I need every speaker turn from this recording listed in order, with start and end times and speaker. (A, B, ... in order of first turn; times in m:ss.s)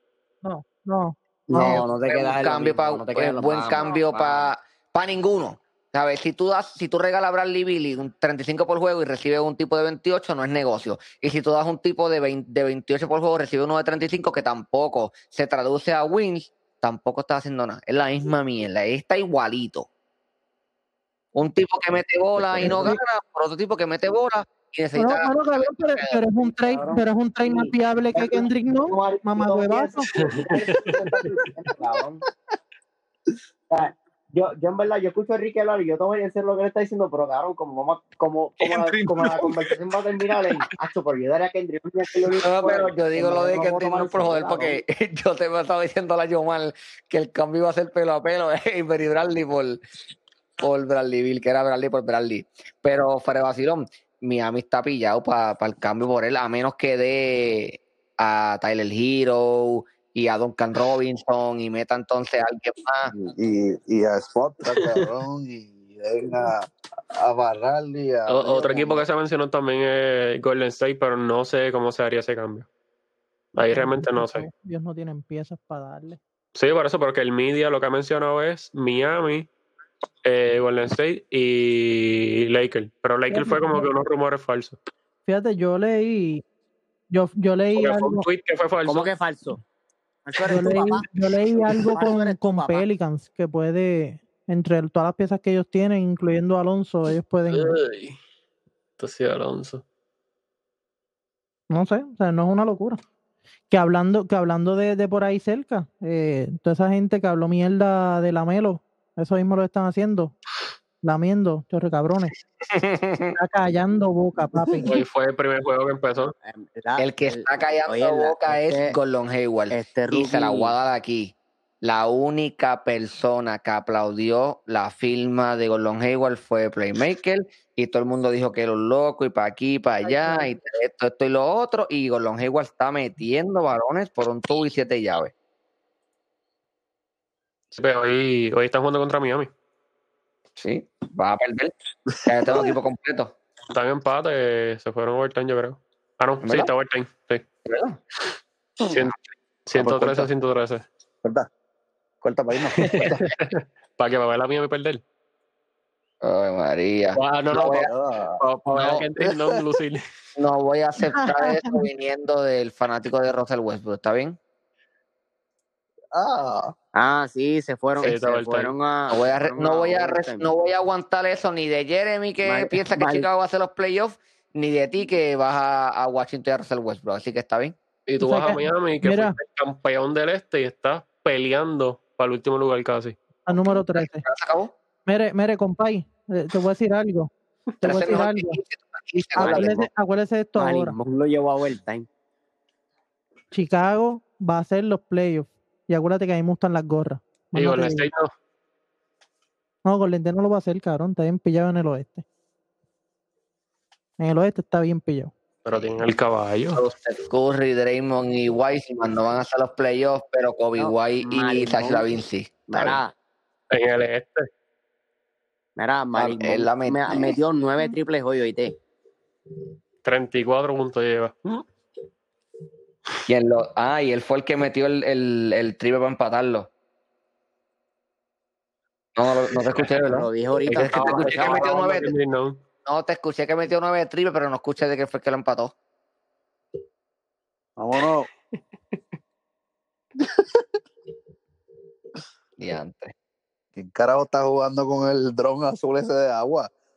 0:00.4-0:01.8 A
0:01.5-0:04.5 B
0:01.5-0:19.9 C
0:21.3-0:26.2 C
0:22.4-0:23.0 D
0:22.6-0:23.0 A
0:24.9-0:30.1 A
0:26.4-0:32.2 B
0:30.2-0:31.3 E
0:33.7-0:44.8 B
0:38.6-0:39.7 D
0:42.3-0:49.8 C
0:50.6-1:03.1 C
1:03.1-1:09.0 D
1:04.8-1:05.0 E
1:08.3-1:12.7 E
1:13.5-1:14.5 E
1:13.6-1:16.2 A
1:16.5-1:19.5 E
1:20.2-1:24.8 E
1:23.3-1:23.9 A
1:25.2-1:26.4 A
1:27.1-1:28.2 A
1:27.8-1:29.1 E
1:28.8-1:29.6 B
1:30.2-1:32.9 B
1:30.4-1:37.8 A
1:37.5-1:38.2 E
1:39.0-1:39.8 E
1:41.7-1:43.0 A
1:43.7-1:50.3 A
1:51.0-1:52.3 A
1:52.6-1:53.4 C
1:53.4-1:54.9 A
1:54.8-1:56.3 E
1:56.4-1:59.0 B
1:57.0-2:15.3 C
1:59.7-2:00.7 B
2:10.0-2:10.5 A
2:17.7-2:19.5 E
2:20.6-2:23.4 C
2:23.7-2:27.4 E
2:26.4-2:26.7 C
2:27.6-2:28.0 C
2:28.8-2:30.8 E
2:29.7-2:30.3 D
2:32.2-2:33.1 D
2:32.7-2:35.0 E
2:36.2-2:37.9 C
2:37.1-2:37.8 E
2:37.5-2:38.4 D
2:38.4-2:40.0 E
2:38.7-2:39.0 C
2:39.2-2:39.6 D
2:40.4-2:44.4 C
2:41.1-2:41.8 A
2:46.1-2:46.7 D
2:46.9-2:50.5 B
2:48.0-2:48.7 E
2:49.1-2:57.8 C
2:52.4-2:53.3 B
2:58.1-3:03.2 E
2:58.2-2:59.4 A
3:03.4-3:04.2 A
3:03.5-3:04.7 C
3:05.0-3:07.3 A
3:07.8-3:08.6 A
3:07.8-3:09.9 C
3:09.4-3:11.0 A
3:09.4-3:09.8 B
3:10.6-3:12.1 B
3:13.5-3:18.1 A
3:17.5-3:18.3 E
3:19.8-3:22.2 A
3:24.2-3:25.3 A
3:25.6-3:26.8 E
3:25.7-3:26.0 C
3:26.7-3:33.0 C
3:30.8-3:32.0 B
3:32.7-3:33.1 B
3:33.7-3:34.5 E
3:35.8-3:38.7 B
3:36.1-3:37.4 C
3:40.0-3:41.3 E
3:43.3-3:46.7 C
3:49.1-3:52.1 C
3:50.0-3:52.1 B
3:50.7-3:52.6 E
3:52.8-3:55.7 C
3:57.8-3:58.3 D
4:00.2-4:00.6 D
4:02.6-4:03.1 C
4:03.7-4:06.7 D